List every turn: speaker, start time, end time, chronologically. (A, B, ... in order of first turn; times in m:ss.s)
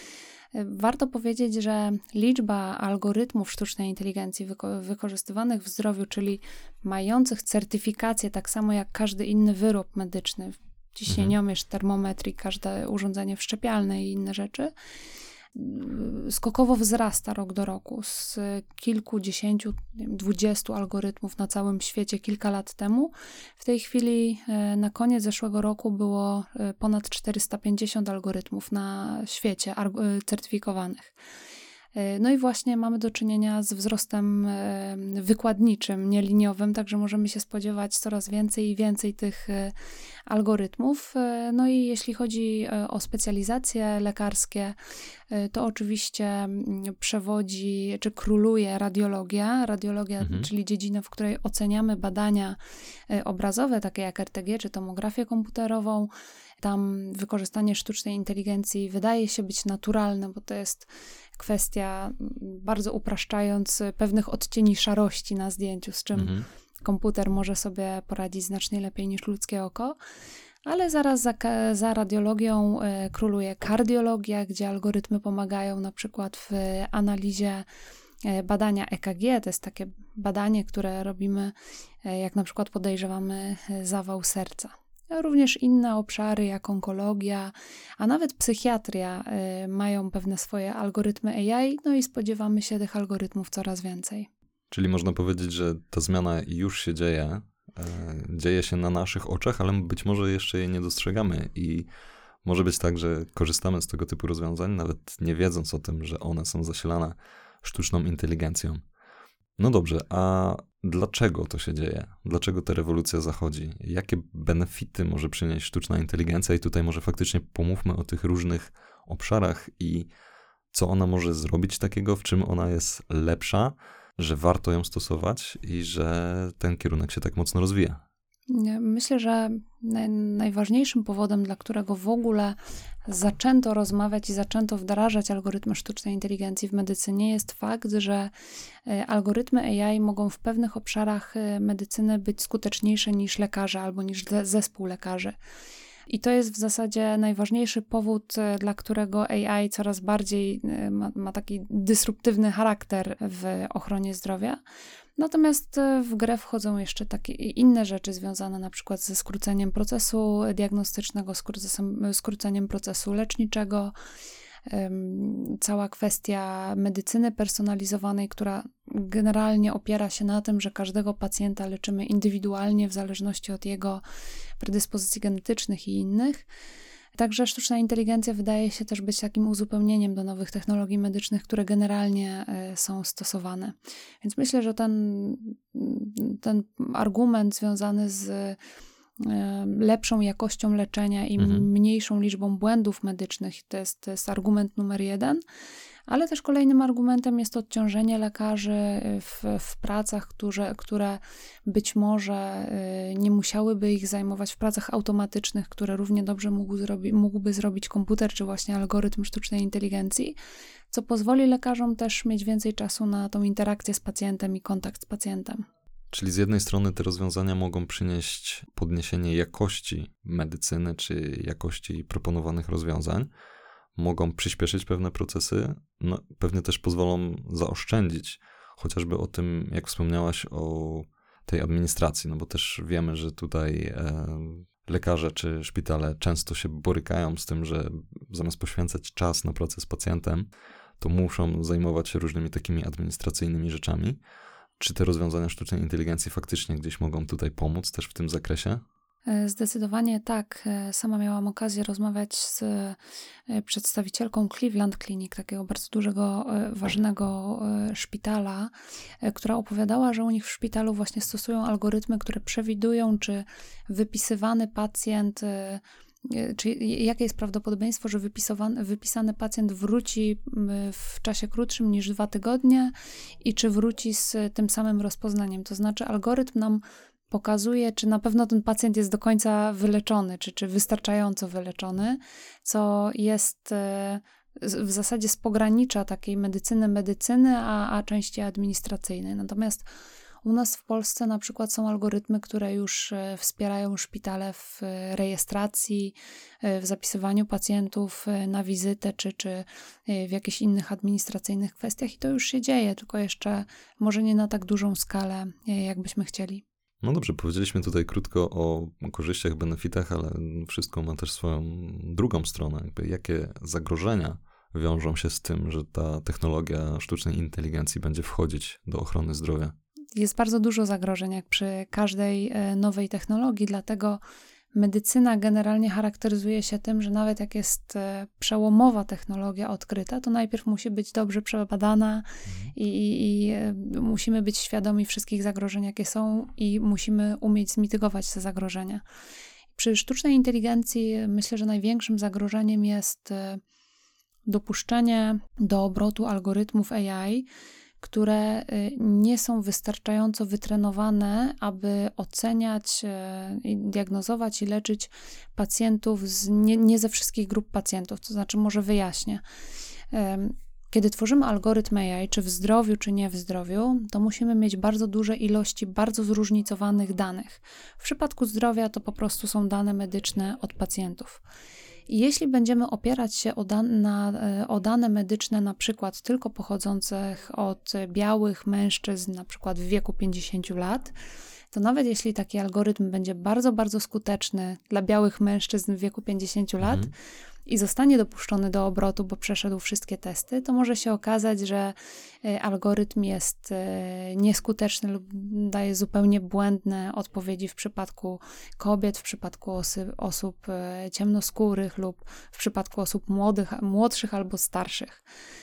0:00.5-0:14.7 A
0:11.1-0:11.4 B
0:15.5-0:31.1 A
0:31.9-0:39.7 A
0:40.3-0:44.7 A
0:45.3-0:52.6 A
0:50.2-0:50.5 B
0:53.1-1:10.0 A
1:06.1-1:06.4 B
1:10.6-1:17.6 A
1:18.2-1:34.3 A
1:34.7-1:41.9 B
1:42.4-1:48.8 B
1:49.6-2:00.1 B
2:00.7-2:08.0 B
2:08.5-2:18.3 A
2:18.8-2:25.4 A
2:26.1-2:34.6 A
2:35.2-2:43.9 A
2:44.6-2:54.0 A
2:54.6-2:56.4 A
2:57.1-3:08.6 A
3:09.2-3:15.4 A
3:11.4-3:11.7 B
3:16.1-3:30.3 A
3:30.9-3:35.7 A
3:36.1-3:43.3 B
3:44.0-4:00.5 B
4:01.0-4:04.2 B
4:04.8-4:08.8 B
4:09.2-4:49.8 A
4:50.4-5:06.6 A
5:07.0-5:19.7 B
5:20.2-5:24.2 A
5:24.7-5:39.0 A
5:32.4-5:32.7 B
5:39.7-5:43.6 A
5:44.4-5:47.5 A
5:48.0-5:59.4 A
6:00.1-6:11.4 A
6:12.1-6:21.1 A
6:21.7-6:27.1 A
6:26.8-6:27.1 B
6:27.7-6:45.2 A